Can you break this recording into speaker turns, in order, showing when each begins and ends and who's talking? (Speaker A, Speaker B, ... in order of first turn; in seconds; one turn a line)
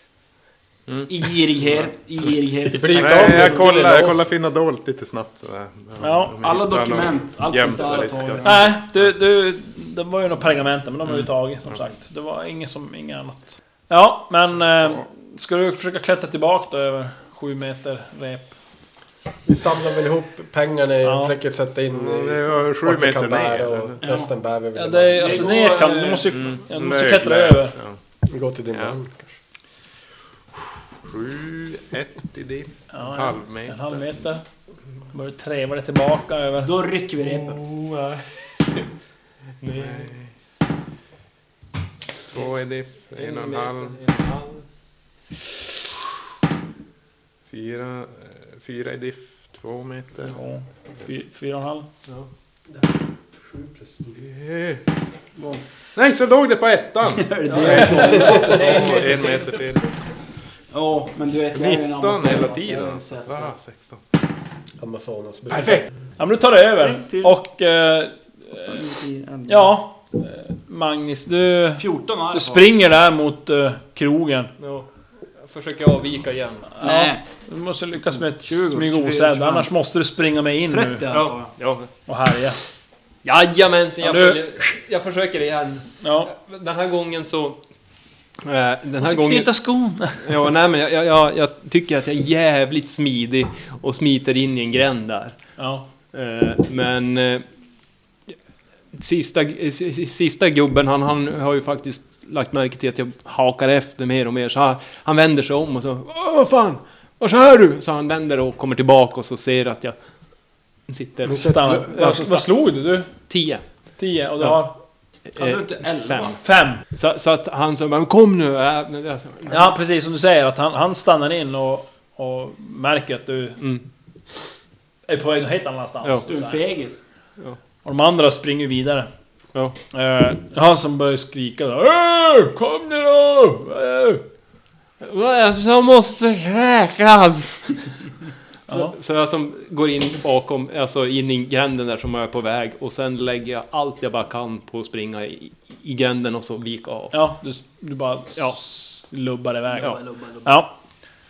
Speaker A: 0.9-1.8
Speaker B: 1.1-4.1
Speaker C: 2.7-4.2
Speaker A: 2.9-9.1
Speaker D: 6.0-6.4
Speaker B: 6.4-8.7
Speaker D: 8.4-18.5
Speaker A: 11.1-11.8
Speaker C: 19.4-25.5
Speaker D: 21.0-21.3
Speaker A: 21.9-23.9
Speaker B: 24.0-24.3
Speaker D: 24.8-27.8
Speaker B: 25.2-26.3
Speaker A: 26.3-28.0
Speaker C: 28.3-29.4
Speaker A: 31.1-34.0
Speaker D: 32.9-34.4
Speaker D: 35.1-36.7
Speaker B: 36.6-37.6
Speaker E: 37.2-38.8
Speaker E: 39.6-40.1
Speaker A: 39.8-40.3
Speaker A: 42.3-44.0
Speaker E: 43.1-44.6
Speaker A: 47.5-50.4
Speaker D: 50.2-51.9
Speaker C: 53.5-54.3
Speaker A: 54.4-54.8
Speaker B: 55.4-55.6
Speaker A: 56.0-59.9
Speaker B: 57.1-59.6
Speaker E: 57.5-58.8
Speaker D: 57.5-58.5
Speaker C: 57.7-58.4
Speaker B: 60.7-63.5
Speaker A: 61.5-64.0
Speaker C: 64.8-65.9
Speaker D: 65.5-68.8
Speaker B: 66.8-67.3
Speaker B: 68.7-69.7
Speaker D: 69.5-74.5
Speaker B: 71.8-72.7
Speaker E: 74.6-74.9
Speaker E: 75.4-76.8
Speaker D: 76.8-81.1
Speaker B: 76.8-77.2
Speaker E: 78.6-79.2
Speaker B: 78.7-79.6
Speaker B: 80.7-81.5
Speaker E: 81.1-81.9
Speaker D: 82.1-82.6
Speaker E: 83.2-87.6
Speaker D: 84.0-84.5
Speaker D: 86.0-86.3
Speaker E: 88.4-89.5
Speaker D: 89.0-90.2
Speaker E: 90.2-95.4
Speaker D: 95.6-95.9
Speaker E: 96.1-97.4
Speaker E: 98.9-110.0
Speaker E: 110.9-112.5
Speaker C: 111.3-112.0
Speaker D: 111.4-113.1
Speaker E: 113.3-113.6
Speaker D: 114.0-114.7
Speaker E: 114.4-114.7
Speaker E: 115.3-116.4
Speaker B: 115.4-116.4
Speaker D: 116.4-116.8
Speaker E: 116.9-119.7
Speaker D: 119.5-123.6
Speaker D: 125.1-126.6
Speaker B: 126.3-127.0
Speaker D: 127.8-129.1
Speaker D: 129.9-134.2
Speaker E: 135.0-137.9
Speaker D: 138.7-138.9
Speaker E: 138.7-147.2
Speaker D: 147.1-150.7
Speaker B: 149.7-150.5